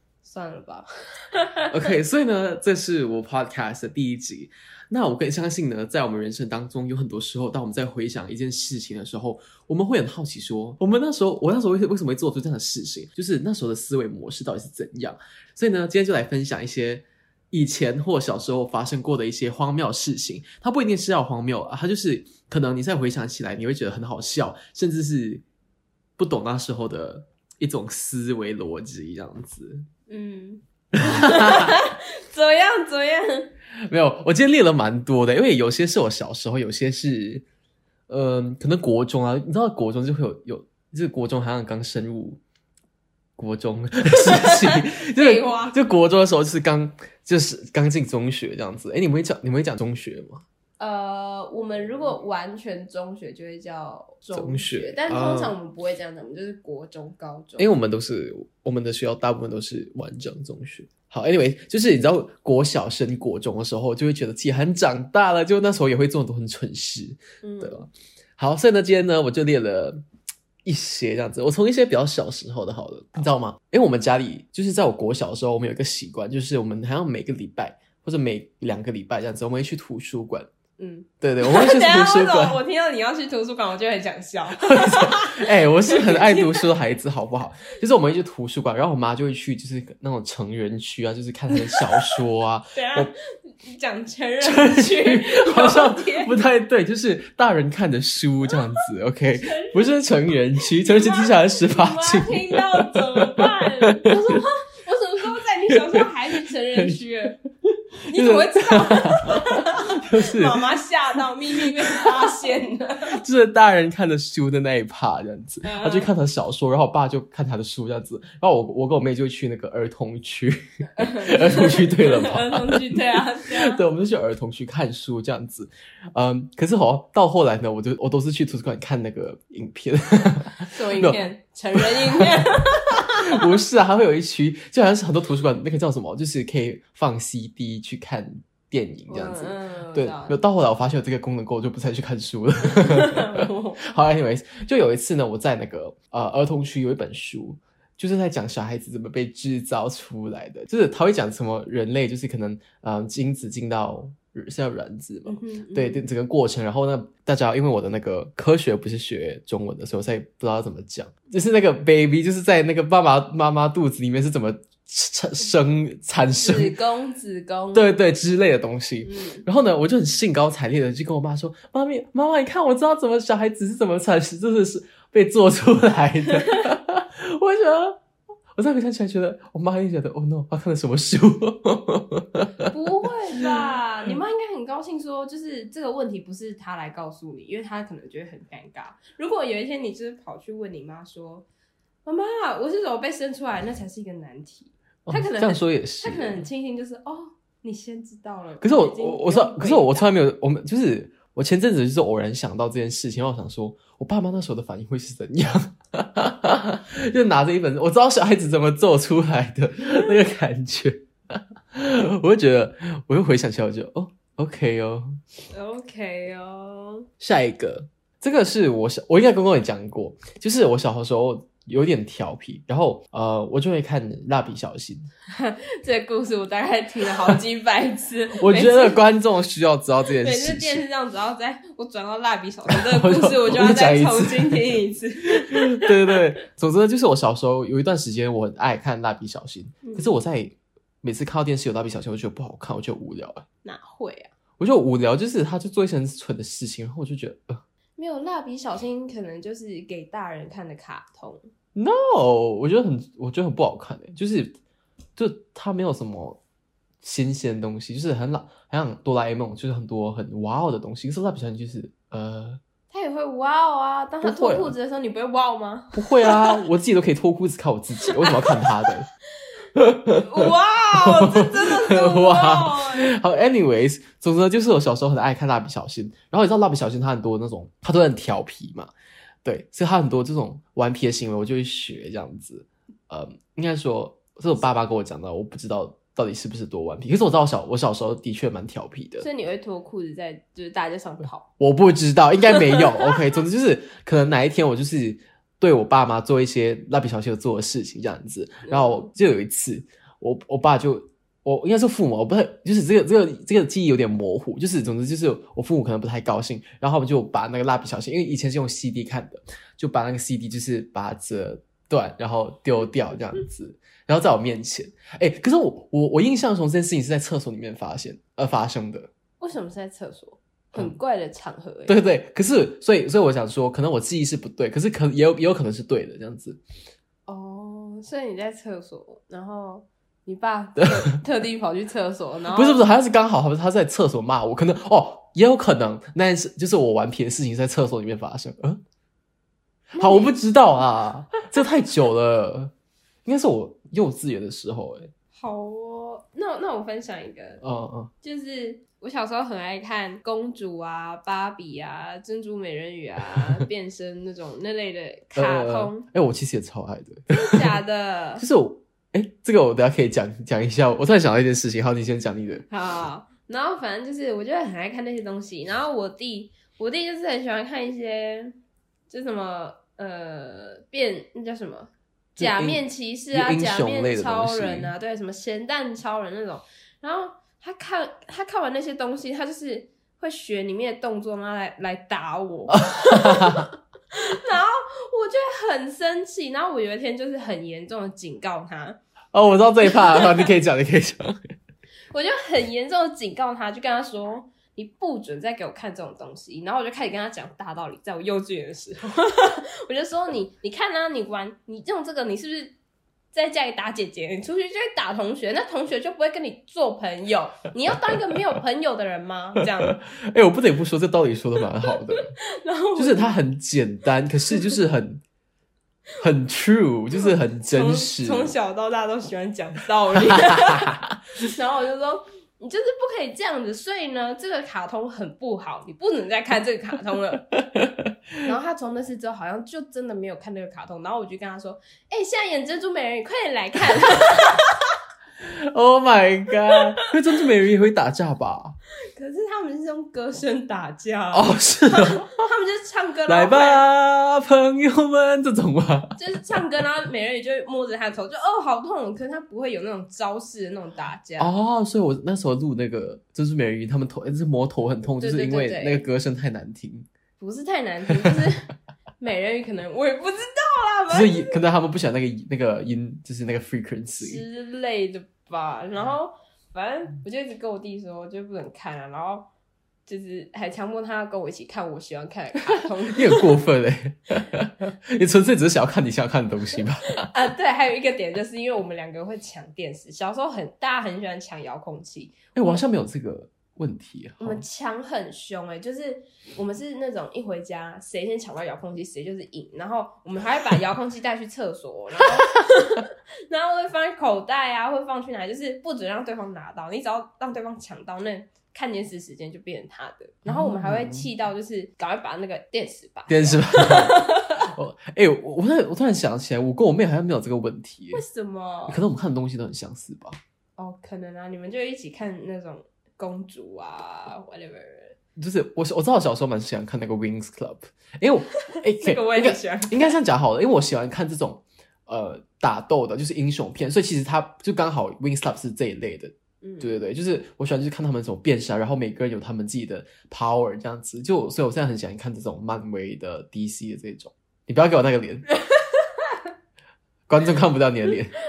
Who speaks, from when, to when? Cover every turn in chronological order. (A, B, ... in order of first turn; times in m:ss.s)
0:00.2-0:01.9 A
0:01.7-0:25.4 B
0:26.2-0:29.9 B
0:30.1-0:33.5 A
0:31.0-0:31.8 B
0:33.9-0:37.4 B
0:38.1-0:42.4 B
0:43.4-0:50.4 B
0:44.2-0:45.8 A
0:50.8-0:57.7 A
0:54.3-0:55.6 B
0:57.6-1:10.0 B
1:07.4-1:07.9 A
1:10.6-1:20.5 B
1:20.8-1:26.7 A
1:21.2-1:22.6 B
1:24.6-1:33.1 B
1:31.8-1:32.1 A
1:32.7-1:36.4 A
1:34.4-1:44.4 B
1:39.4-1:40.0 A
1:40.6-1:47.4 A
1:45.7-1:46.1 B
1:46.8-1:47.0 B
1:48.0-1:50.6 B
1:48.1-1:53.2 A
1:51.6-1:52.3 B
1:53.1-2:11.2 B
1:55.6-1:56.1 A
2:00.9-2:03.8 A
2:10.6-2:13.5 A
2:11.8-2:46.7 B
2:19.1-2:20.4 A
2:22.6-2:23.8 A
2:35.3-2:36.0 A
2:46.4-2:47.9 A
2:47.7-2:58.0 B
2:49.0-2:49.4 A
2:58.6-3:02.7 B
3:02.7-3:11.5 A
3:03.4-3:04.2 B
3:12.0-3:20.1 A
3:15.1-3:16.4 B
3:18.6-3:35.2 B
3:35.5-3:37.1 A
3:37.2-3:45.1 B
3:45.3-3:49.0 A
3:48.4-3:50.8 B
3:50.2-3:56.2 A
3:52.7-3:54.8 B
3:55.3-4:03.4 B
3:59.8-4:00.2 A
4:03.6-4:04.3 A
4:04.6-4:07.6 B
4:08.0-4:11.5 A
4:11.8-4:14.6 B
4:15.2-4:16.4 B
4:17.0-4:22.6 B
4:22.9-4:26.6 A
4:24.2-4:24.7 B
4:25.9-4:29.1 B
4:28.0-4:28.7 A
4:29.8-4:38.9 B
4:30.2-4:33.1 A
4:39.4-4:49.3 B
4:49.2-4:51.5 A
4:51.6-5:19.1 B
4:58.7-4:59.1 A
5:19.4-5:22.0 A
5:21.9-5:26.6 B
5:27.3-5:32.8 A
5:30.8-5:31.2 B
5:32.5-5:38.8 B
5:40.0-5:40.3 A
5:40.0-5:42.7 B
5:43.3-5:45.1 B
5:45.3-5:47.6 A
5:47.6-5:48.1 B
5:48.2-5:56.1 A
5:55.4-5:57.7 B
5:57.3-5:58.4 A
5:58.4-6:02.6 B
6:02.7-6:08.6 A
6:09.1-6:29.0 A
6:12.4-6:14.9 B
6:22.7-6:23.7 B
6:29.3-6:31.4 B
6:29.9-6:30.5 A
6:32.1-6:42.8 A
6:43.3-6:50.0 A
6:49.9-6:52.3 B
6:52.1-6:53.4 A
6:53.0-6:55.2 B
6:56.2-6:58.5 B
6:57.2-7:07.5 A
7:00.3-7:01.2 B
7:07.5-7:08.1 B
7:08.4-7:14.9 A
7:15.4-7:18.8 B
7:19.1-7:23.8 A
7:21.3-7:22.3 B
7:23.3-7:26.2 B
7:26.2-7:31.5 A
7:31.4-7:37.1 B
7:35.2-7:36.1 A
7:37.4-7:41.6 A
7:41.1-7:44.4 B
7:44.2-7:49.5 A
7:50.1-7:53.5 A
7:53.1-7:57.3 B
7:57.2-8:02.8 A
8:02.6-8:04.6 B
8:04.4-8:24.6 A
8:20.4-8:21.3 B
8:23.3-8:28.2 B
8:28.1-8:29.0 A
8:28.9-8:30.4 B
8:30.8-8:35.2 A
8:35.4-8:55.5 B
8:38.7-8:40.1 A
8:46.6-8:47.0 A
8:57.3-8:58.3 B